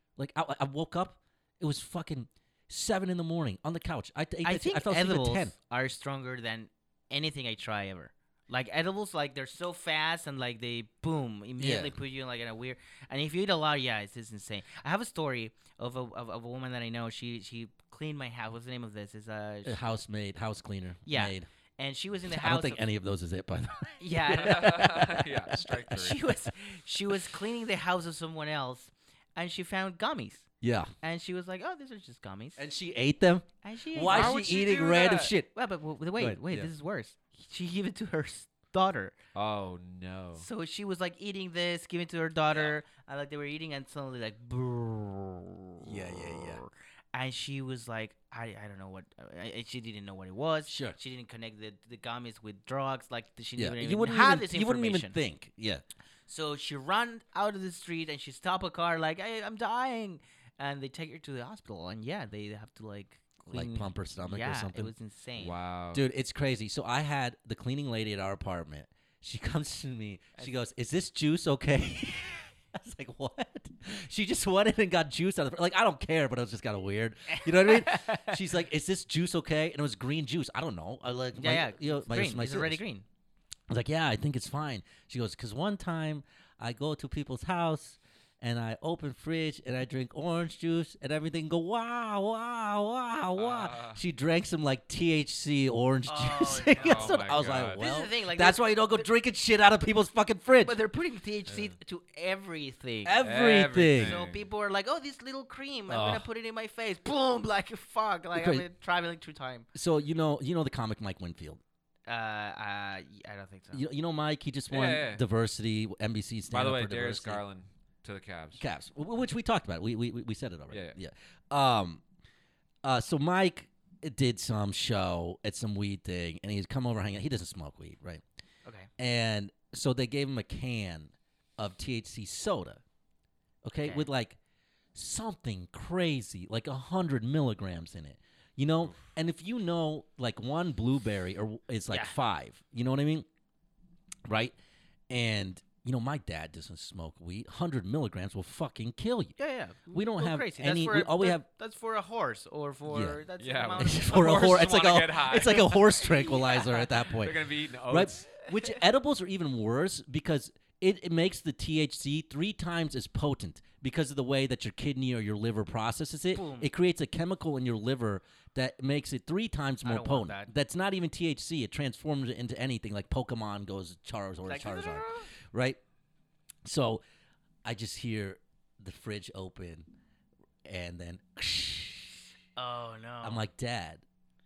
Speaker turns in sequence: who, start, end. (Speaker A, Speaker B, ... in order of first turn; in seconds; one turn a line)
Speaker A: 0.2-5.5
Speaker B: 4.4-19.8
Speaker A: 11.6-11.9
Speaker A: 19.6-21.5
Speaker B: 21.1-22.9
Speaker A: 22.3-26.0
Speaker B: 24.0-24.9
Speaker C: 24.4-26.2
Speaker B: 25.9-30.5
Speaker A: 30.6-30.9
Speaker B: 31.0-32.6
Speaker A: 32.6-35.5
Speaker B: 33.6-34.4
Speaker C: 34.1-35.3
Speaker B: 35.5-39.1
Speaker A: 36.1-36.7
Speaker C: 39.3-40.5
Speaker B: 40.4-55.1
Speaker A: 45.8-46.6
Speaker A: 50.7-51.0
Speaker A: 53.6-55.8
Speaker B: 56.3-65.5
Speaker A: 63.5-64.9
Speaker C: 65.4-66.0
Speaker A: 65.9-82.8
Speaker B: 77.3-78.4
Speaker B: 81.3-83.0
Speaker A: 83.7-100.8
Speaker C: 93.3-94.0
Speaker B: 96.1-99.0
Speaker C: 96.8-97.8
Speaker B: 100.6-103.2
Speaker C: 101.5-101.7
Speaker A: 103.0-104.2
Speaker C: 103.2-104.4
Speaker B: 104.0-109.7
Speaker A: 105.9-106.3
Speaker A: 108.3-108.7
Speaker A: 109.7-111.6
Speaker B: 112.1-113.8
Speaker A: 113.7-117.4
Speaker C: 114.7-115.2
Speaker C: 116.5-118.6
Speaker A: 118.5-122.0
Speaker C: 120.7-121.0
Speaker A: 122.8-128.2
Speaker A: 129.0-132.8
Speaker A: 133.6-134.4
Speaker B: 133.8-134.1
Speaker A: 134.9-143.2
Speaker B: 141.9-142.1
Speaker A: 144.2-144.6
Speaker A: 145.1-149.3
Speaker B: 149.4-154.6
Speaker A: 149.9-151.4
Speaker A: 152.9-153.2
Speaker C: 153.4-156.1
Speaker A: 153.8-175.8
Speaker B: 156.2-156.6
Speaker C: 157.1-158.3
Speaker B: 166.3-166.7
Speaker B: 169.8-170.5
Speaker B: 174.4-175.3
Speaker A: 176.6-177.0
Speaker A: 177.6-179.9
Speaker A: 180.6-182.2
Speaker B: 182.6-183.5
Speaker A: 183.2-184.0